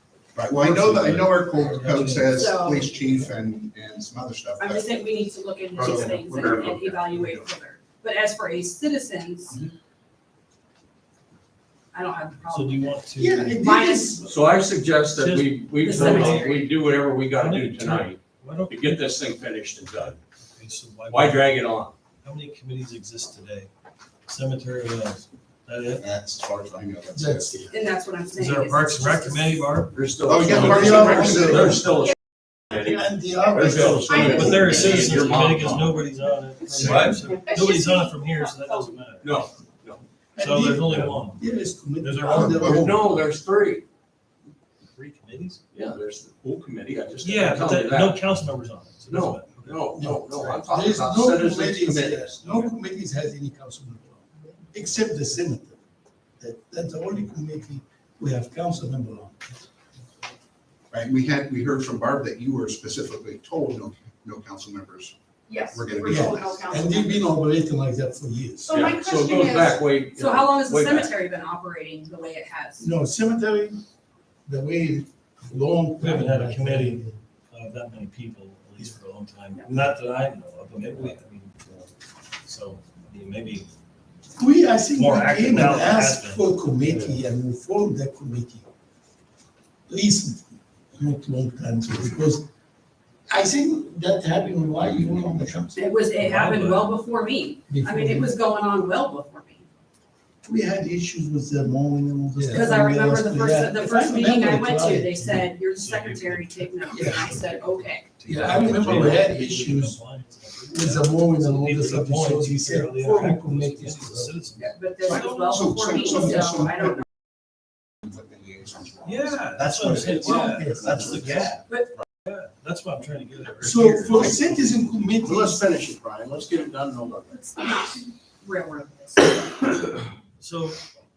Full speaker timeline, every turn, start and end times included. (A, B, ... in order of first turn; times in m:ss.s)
0:00.3-0:05.0 A
0:00.6-0:02.5 B
0:02.3-0:03.0 C
0:04.6-0:09.6 C
0:05.7-0:07.5 A
0:05.9-0:06.6 D
0:11.9-0:14.2 C
0:12.5-0:13.6 B
0:13.2-0:14.3 E
0:14.2-0:20.2 D
0:15.1-0:16.6 B
0:15.8-0:16.7 C
0:17.3-0:19.1 B
0:19.9-0:21.6 B
0:21.1-0:21.9 D
0:22.2-0:23.7 B
0:24.3-0:26.0 B
0:26.0-0:27.7 A
0:27.1-0:27.7 E
0:27.7-0:29.7 C
0:28.3-0:29.9 B
0:29.9-0:32.2 D
0:30.2-0:31.8 A
0:30.5-0:31.8 E
0:30.6-0:31.8 B
0:32.7-0:34.7 E
0:32.7-0:36.0 D
0:33.6-0:35.2 C
0:34.2-0:39.5 B
0:36.7-0:38.9 C
0:36.8-0:37.2 D
0:39.2-0:40.0 D
0:40.4-0:43.2 E
0:40.4-0:41.5 B
0:42.0-0:42.8 B
0:42.3-0:42.9 A
0:42.5-0:43.8 D
0:44.9-0:45.6 B
0:45.7-0:48.2 D
0:47.2-0:50.5 B
0:49.1-0:52.7 D
0:49.9-0:55.8 E
0:56.4-0:59.6 E
1:00.9-1:05.1 A
1:05.5-1:07.2 C
1:05.7-1:06.7 A
1:06.0-1:08.8 E
1:08.6-1:12.9 C
1:08.7-1:11.1 D
1:12.8-1:13.8 E
1:14.5-1:17.2 E
1:16.0-1:21.9 B
1:22.4-1:23.6 B
1:24.4-1:28.7 E
1:24.9-1:26.4 B
1:26.9-1:27.2 D
1:29.9-1:32.5 E
1:33.3-1:36.0 E
1:35.8-1:39.6 C
1:36.1-1:37.0 B
1:37.7-1:38.3 E
1:40.4-1:45.5 E
1:42.5-1:48.7 C
1:45.6-1:55.7 B
1:46.9-1:47.2 E
1:48.2-1:50.0 E
1:50.7-1:54.4 E
1:54.7-1:57.0 C
1:55.0-1:57.0 A
1:56.1-1:56.4 E
1:58.0-1:59.6 A
1:59.0-2:01.7 B
1:59.6-2:01.6 E
2:01.7-2:01.9 C
2:02.2-2:04.5 B
2:03.6-2:05.6 E
2:04.1-2:04.6 D
2:05.2-2:07.4 D
2:07.4-2:09.7 C
2:10.4-2:10.8 B